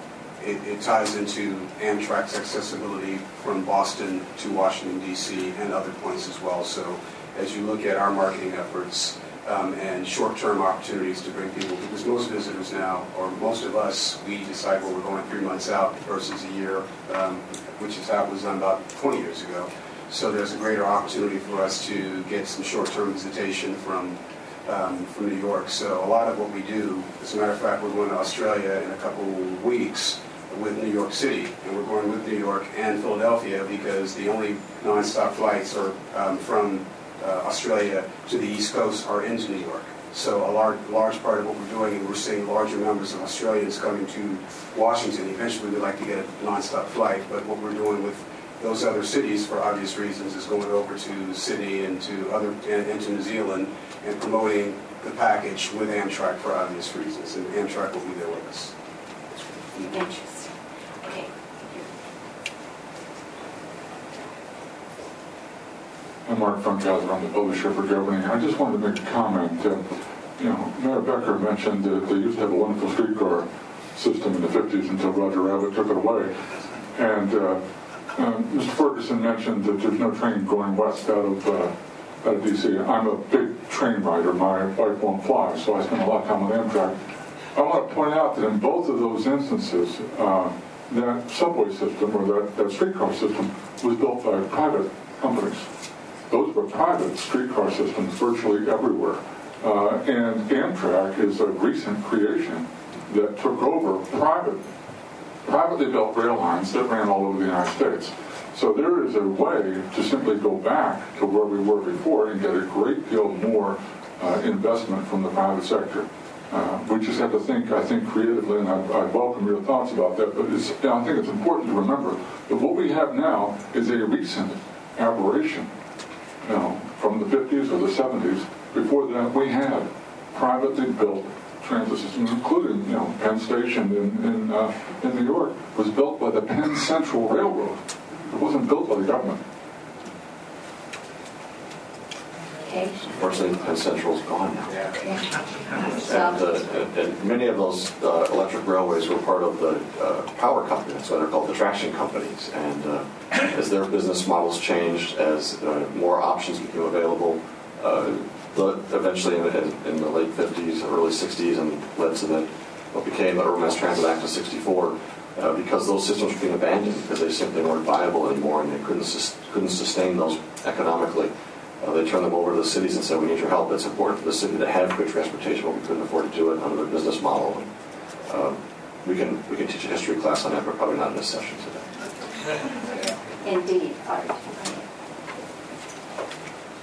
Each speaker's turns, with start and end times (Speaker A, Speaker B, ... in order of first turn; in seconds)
Speaker A: 0.4-58.7
Speaker B: 59.7-60.5, 61.0-61.9, 142.6-143.0, 145.0-146.4, 182.8-184.8
Speaker C: 66.2-69.8, 70.4-76.3, 76.9-87.0, 87.5-95.7, 96.3-104.6, 105.4-125.7, 126.4-139.4
Speaker D: 143.1-144.8, 146.0-177.7, 178.3-181.9